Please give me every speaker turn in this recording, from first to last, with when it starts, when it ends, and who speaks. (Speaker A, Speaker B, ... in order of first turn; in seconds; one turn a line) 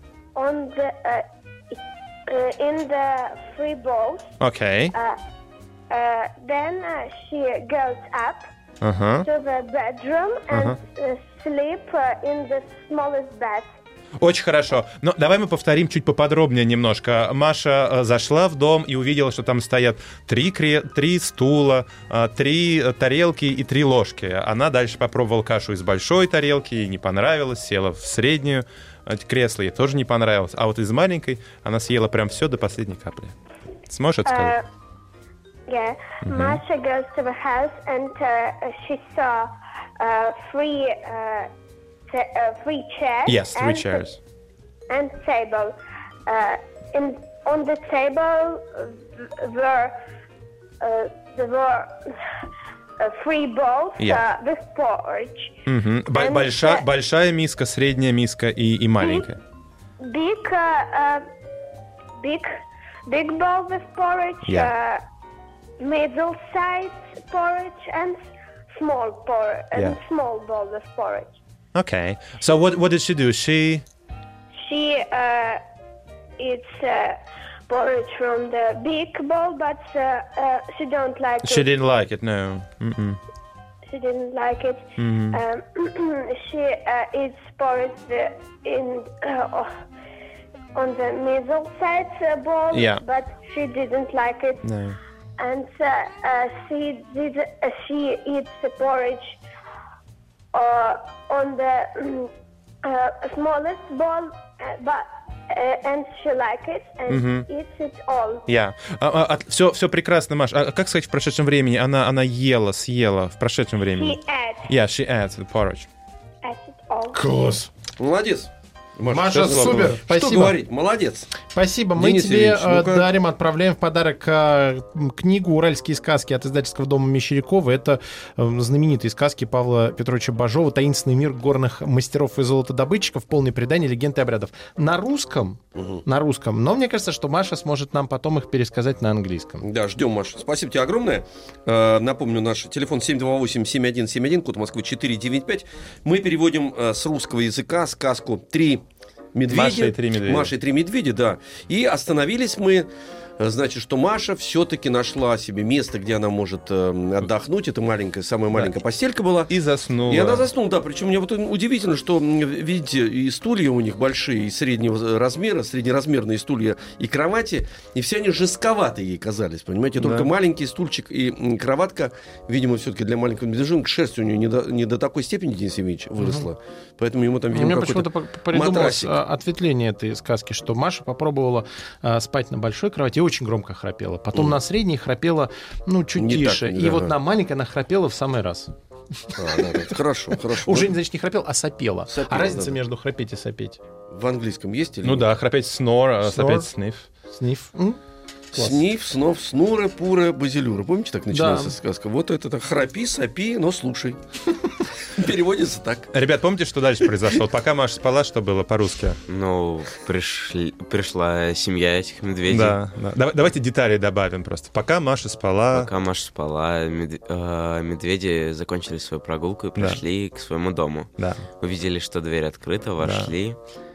Speaker A: 0.3-4.3
Speaker B: 4.4-4.9
Speaker A: 4.9-5.2
Speaker A: 5.9-8.4
Speaker B: 8.8-9.3
Speaker A: 9.2-13.7
Speaker B: 10.5-10.8
Speaker B: 14.2-33.3
Speaker B: 33.9-34.5
Speaker A: 34.2-34.6
Speaker A: 35.7-41.5
Speaker B: 36.2-36.6
Speaker A: 42.1-44.1
Speaker B: 43.3-44.2
Speaker A: 44.9-50.0
Speaker A: 50.8-52.4
Speaker A: 53.0-55.6
Speaker B: 55.7-59.4
Speaker A: 56.1-56.9
Speaker A: 59.0-59.3
Speaker A: 60.0-61.2
Speaker A: 62.2-65.0
Speaker B: 64.5-64.7
Speaker A: 65.8-71.3
Speaker B: 71.7-73.8
Speaker A: 74.6-75.6
Speaker A: 76.4-81.7
Speaker B: 81.4-83.2
Speaker A: 83.9-89.7
Speaker B: 85.0-85.4
Speaker A: 90.7-94.6
Speaker B: 92.7-93.0
Speaker B: 94.6-95.0
Speaker A: 95.4-99.4
Speaker A: 100.5-102.3
Speaker A: 102.8-108.5
Speaker B: 107.1-107.5
Speaker B: 108.5-115.9
Speaker A: 113.9-114.7
Speaker A: 116.4-117.2
Speaker C: 117.1-117.7
Speaker D: 117.9-121.3
Speaker C: 119.1-120.6
Speaker B: 119.3-120.0
Speaker C: 121.5-139.6
Speaker D: 122.0-123.1
Speaker D: 135.8-136.0
Speaker D: 139.6-148.8
Speaker D: 149.3-159.5
Speaker B: 149.5-150.5
Speaker B: 159.5-160.5
Speaker D: 160.1-179.1
Speaker B: 170.0-170.3
Speaker C: 176.2-176.5
Speaker C: 177.5-189.9
Speaker D: 186.2-187.1
Speaker D: 189.3-190.9
Speaker C: 190.4-193.8
Speaker D: 192.1-192.8
Speaker D: 194.1-195.3
Speaker B: 195.0-197.1
Speaker C: 196.2-196.7
Speaker C: 197.3-198.0
Speaker C: 198.5-198.8
Speaker D: 198.5-204.2
Speaker C: 201.3-201.8
Speaker D: 205.0-206.1
Speaker B: 206.1-209.2
Speaker E: 209.3-212.8
Speaker B: 212.5-215.9
Speaker E: 215.7-223.6
Speaker B: 221.2-221.4
Speaker B: 223.0-223.3